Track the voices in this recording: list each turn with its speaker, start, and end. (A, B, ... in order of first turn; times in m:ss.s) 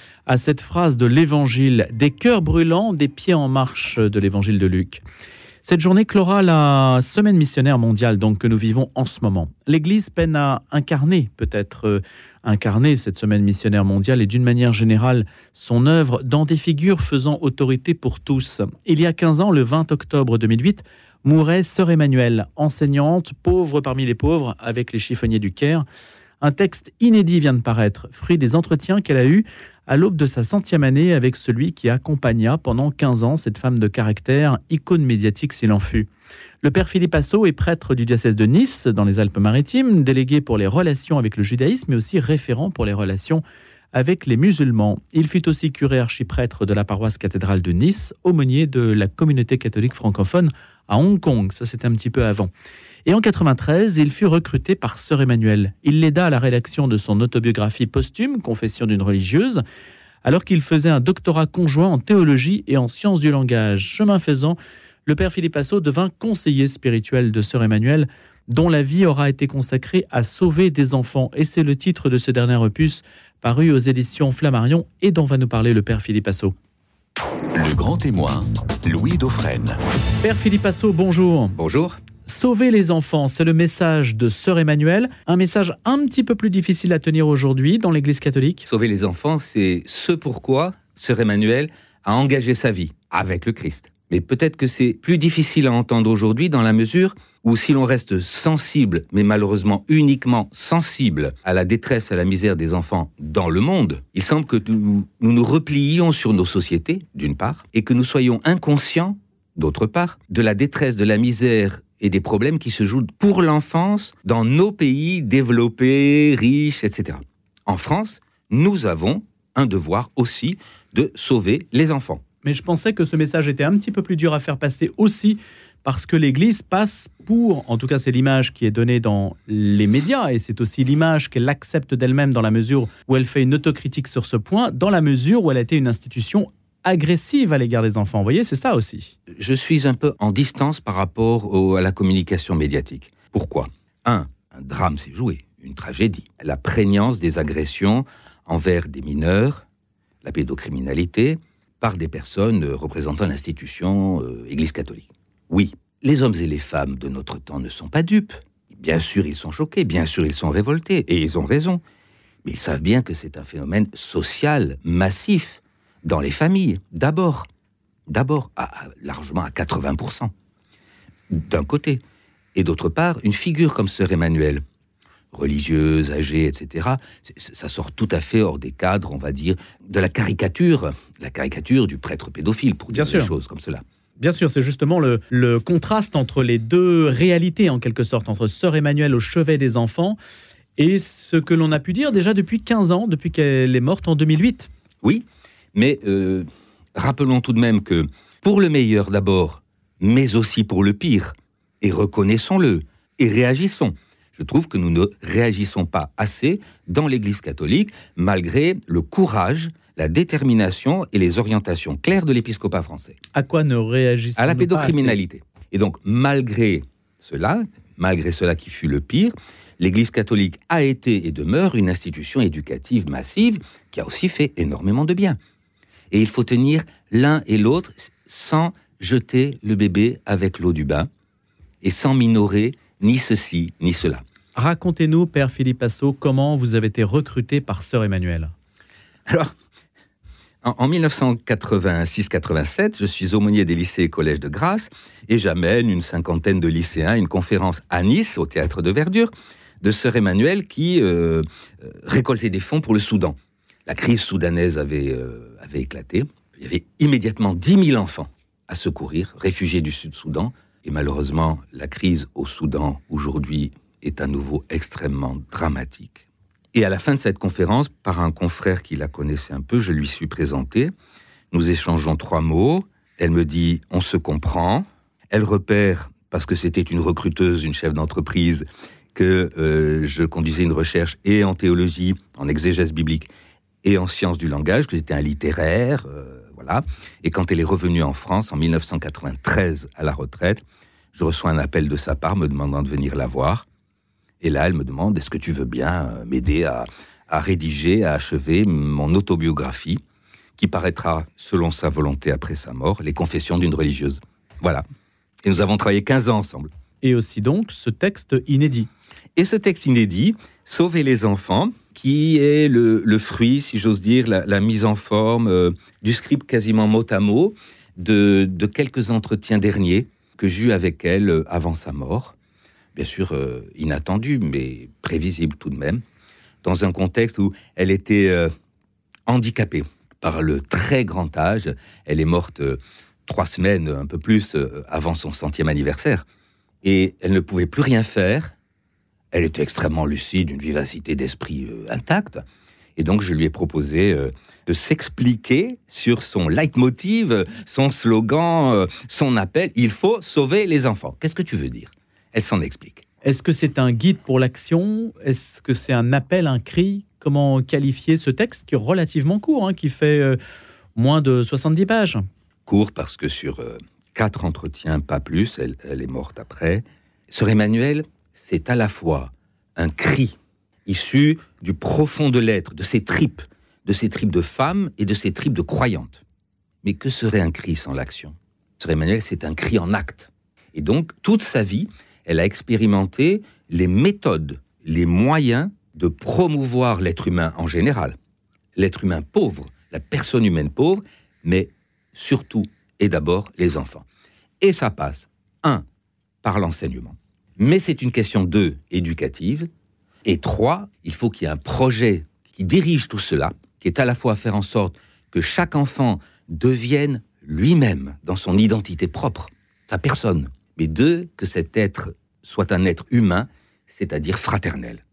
0:00.3-0:05.0 A
0:05.6-0:25.8 A
0:26.4-0:36.1 A
0:36.6-0:52.5 A
0:53.1-0:59.6 A
1:00.2-1:16.5 A
1:17.6-1:19.8 B
1:20.2-1:21.6 A
1:21.6-1:22.0 C
1:22.3-1:28.7 A
1:28.7-2:02.2 C
2:02.4-2:19.1 A
2:19.3-2:29.6 C
2:30.2-2:41.8 C
2:42.4-2:47.5 C
2:48.1-2:50.3 C
2:51.3-2:52.0 C
2:52.5-2:54.6 C
2:55.3-3:03.8 C
3:02.9-3:03.3 A
3:04.2-3:10.2 A
3:10.8-3:14.7 A
3:15.0-3:33.2 C
3:33.3-3:35.2 A
3:34.4-3:45.4 C
3:46.1-3:51.1 C
3:51.8-3:54.2 C
3:54.6-3:58.5 A
3:59.3-3:59.5 C
4:00.6-4:30.9 C
4:31.5-4:43.3 C
4:43.8-4:50.6 C
4:51.1-4:53.7 C
4:54.4-5:00.0 C
5:00.6-5:04.8 C
5:05.4-5:06.7 C
5:07.0-5:08.9 A
5:09.4-5:22.4 C
5:23.0-5:26.0 C
5:26.6-5:28.5 C
5:29.3-5:36.2 C
5:36.8-5:38.6 C
5:39.3-5:42.4 C
5:43.0-5:53.0 C
5:53.2-6:00.4 A
6:01.0-6:02.2 A
6:02.7-6:16.2 C
6:16.8-6:28.2 C
6:28.8-6:34.1 C
6:34.6-6:35.8 C
6:36.4-6:39.7 C
6:40.2-6:55.0 C